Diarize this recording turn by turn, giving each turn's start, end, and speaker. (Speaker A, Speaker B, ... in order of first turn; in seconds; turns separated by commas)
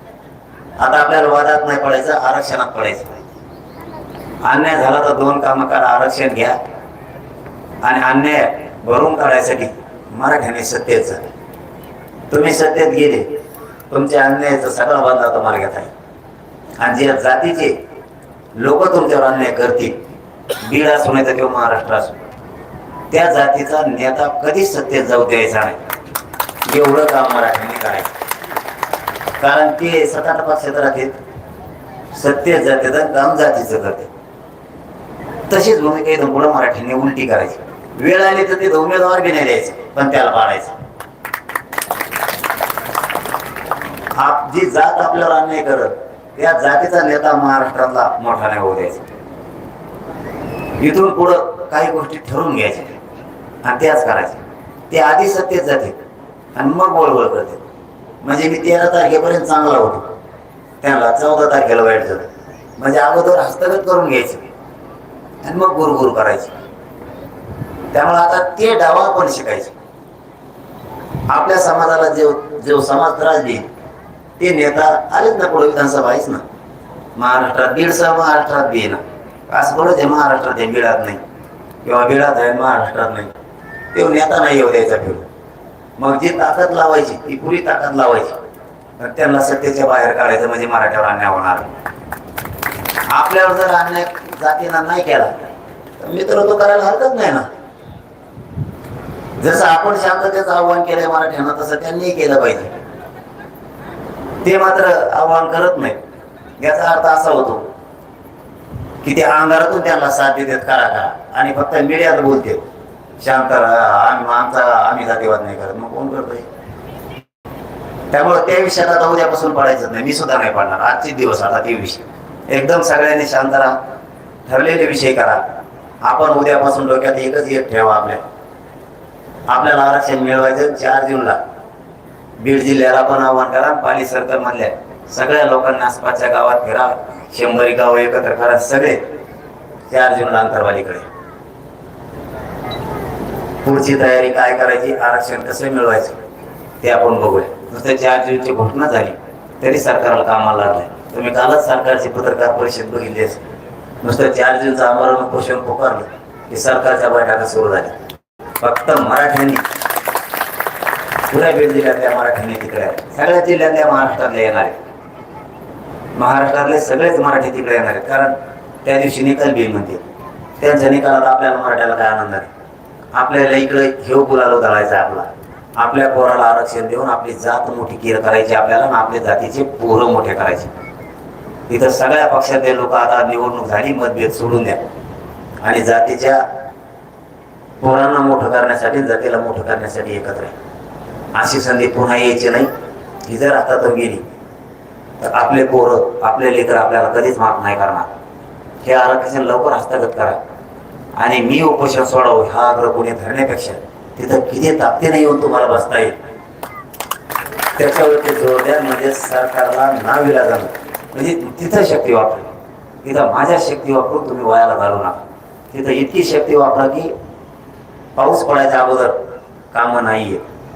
Speaker A: 0.8-3.1, Speaker A: 4.4-6.6, Speaker A: 7.8-11.2, Speaker A: 12.3-13.3, Speaker A: 13.9-15.9, Speaker A: 16.8-17.8, Speaker A: 18.6-19.9, Speaker A: 20.6-22.2, Speaker A: 23.1-25.8, Speaker A: 26.6-28.1, Speaker A: 29.4-31.1, Speaker A: 32.1-34.1, Speaker A: 35.5-40.8, Speaker A: 44.1-49.0, Speaker A: 50.8-52.9, Speaker A: 53.6-56.0, Speaker A: 56.5-57.6, Speaker A: 58.2-60.1, Speaker A: 60.8-64.4, Speaker A: 65.4-66.5, Speaker A: 67.9-69.7, Speaker A: 71.3-73.6, Speaker A: 74.4-76.4, Speaker A: 77.2-81.2, Speaker A: 81.8-83.3, Speaker A: 83.9-85.3, Speaker A: 86.0-88.4, Speaker A: 89.0-91.7, Speaker A: 93.1-95.3, Speaker A: 96.0-97.5, Speaker A: 99.4-102.7, Speaker A: 104.4-106.0, Speaker A: 106.6-107.6, Speaker A: 109.0-112.6, Speaker A: 113.2-116.5, Speaker A: 118.1-123.7, Speaker A: 124.5-125.4, Speaker A: 126.0-128.2, Speaker A: 129.5-131.4, Speaker A: 132.4-139.0, Speaker A: 139.9-141.1, Speaker A: 143.6-146.2, Speaker A: 146.8-153.4, Speaker A: 154.0-157.9, Speaker A: 158.6-159.6, Speaker A: 161.3-164.8, Speaker A: 166.2-170.0, Speaker A: 170.6-172.5, Speaker A: 173.1-180.7, Speaker A: 181.7-184.8, Speaker A: 185.6-186.4, Speaker A: 187.8-190.5, Speaker A: 191.3-192.7, Speaker A: 193.2-194.2, Speaker A: 195.2-198.1, Speaker A: 198.8-200.4, Speaker A: 201.2-206.1, Speaker A: 207.8-212.5, Speaker A: 213.0-217.1, Speaker A: 218.2-219.2, Speaker A: 219.7-220.4